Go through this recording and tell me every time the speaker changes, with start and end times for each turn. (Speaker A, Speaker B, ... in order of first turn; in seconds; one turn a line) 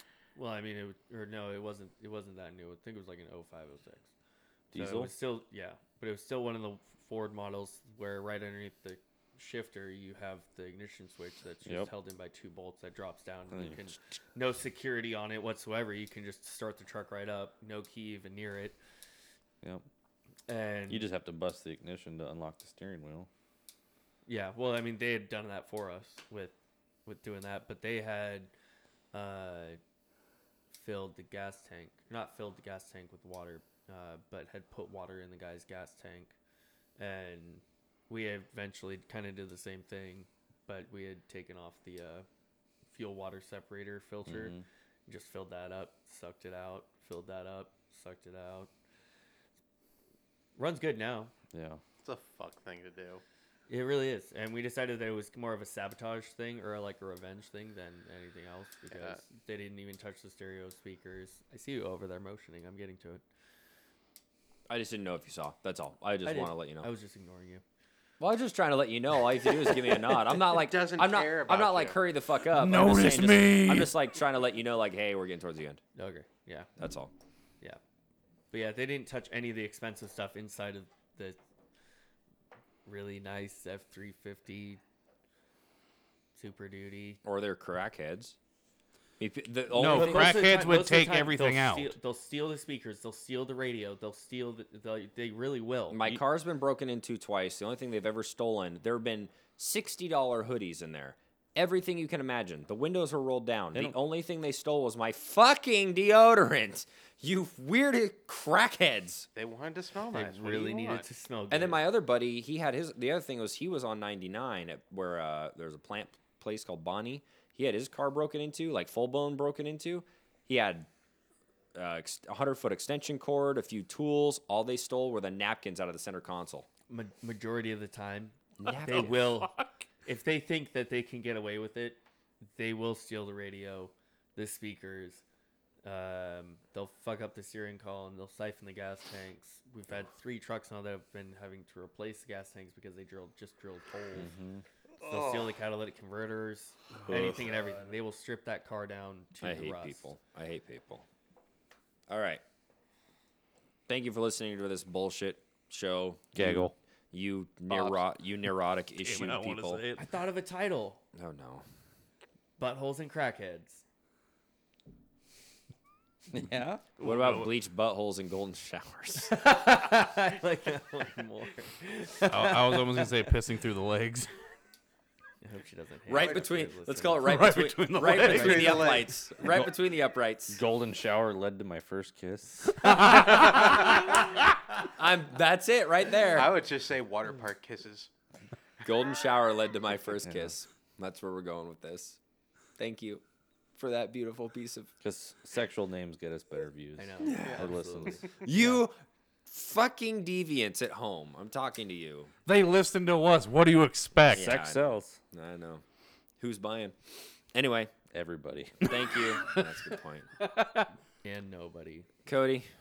Speaker A: 0.4-4.1
Speaker B: 4.7-5.1
Speaker A: 4.7-18.8
Speaker B: 11.6-11.9
Speaker B: 13.5-13.9
Speaker A: 20.5-21.1
Speaker B: 20.9-23.3
Speaker A: 24.3-28.5
Speaker A: 29.1-29.8
Speaker A: 30.7-36.4
Speaker A: 37.0-42.3
Speaker A: 42.9-48.7
Speaker B: 44.3-44.6
Speaker A: 50.6-51.3
Speaker B: 51.5-51.8
Speaker C: 52.0-53.2
Speaker A: 53.7-63.2
Speaker C: 58.9-59.2
Speaker D: 64.7-66.9
Speaker A: 66.2-67.6
Speaker D: 68.2-75.8
Speaker C: 70.4-72.0
Speaker E: 72.5-73.9
Speaker A: 76.0-76.7
Speaker D: 76.8-77.1
Speaker A: 78.5-81.4
Speaker A: 82.8-84.8
Speaker A: 86.4-87.2
Speaker D: 87.2-88.4
Speaker D: 89.2-90.5
Speaker E: 89.7-92.0
Speaker A: 89.8-96.0
Speaker D: 95.9-109.3
Speaker C: 109.3-111.0
Speaker A: 110.1-111.8
Speaker D: 111.5-120.9
Speaker D: 121.7-126.7
Speaker A: 126.9-129.5
Speaker D: 128.6-129.2
Speaker E: 128.7-129.7
Speaker A: 130.0-132.0
Speaker A: 132.5-135.2
Speaker A: 135.8-144.3
Speaker B: 144.1-144.6
Speaker A: 145.0-150.1
Speaker B: 147.1-147.5
Speaker D: 149.4-151.1
Speaker D: 152.1-152.4
Speaker D: 153.9-159.8
Speaker B: 156.3-156.7
Speaker E: 159.0-160.1
Speaker A: 160.0-161.0
Speaker D: 161.1-161.6
Speaker A: 162.6-163.8
Speaker B: 166.3-166.8
Speaker E: 167.0-167.5
Speaker D: 167.0-169.4
Speaker A: 169.3-173.4
Speaker E: 172.3-174.3
Speaker A: 175.4-177.4
Speaker D: 176.1-180.6
Speaker C: 176.2-176.5
Speaker E: 177.2-179.0
Speaker C: 178.0-179.1
Speaker B: 179.4-179.7
Speaker B: 180.5-183.5
Speaker E: 182.7-184.4
Speaker D: 183.6-183.9
Speaker D: 184.8-186.6
Speaker C: 186.3-188.1
Speaker D: 188.8-192.2
Speaker B: 190.2-190.5
Speaker D: 192.8-193.2
Speaker D: 193.8-194.9
Speaker B: 195.0-198.2
Speaker A: 197.0-198.8
Speaker D: 197.2-197.7
Speaker D: 198.4-198.9
Speaker D: 199.4-202.3
Speaker E: 202.4-204.5
Speaker D: 204.3-205.8
Speaker B: 204.3-205.2
Speaker D: 206.4-207.9
Speaker B: 208.1-209.1
Speaker D: 208.8-210.3
Speaker E: 210.4-210.9
Speaker A: 211.2-212.1
Speaker D: 212.2-212.7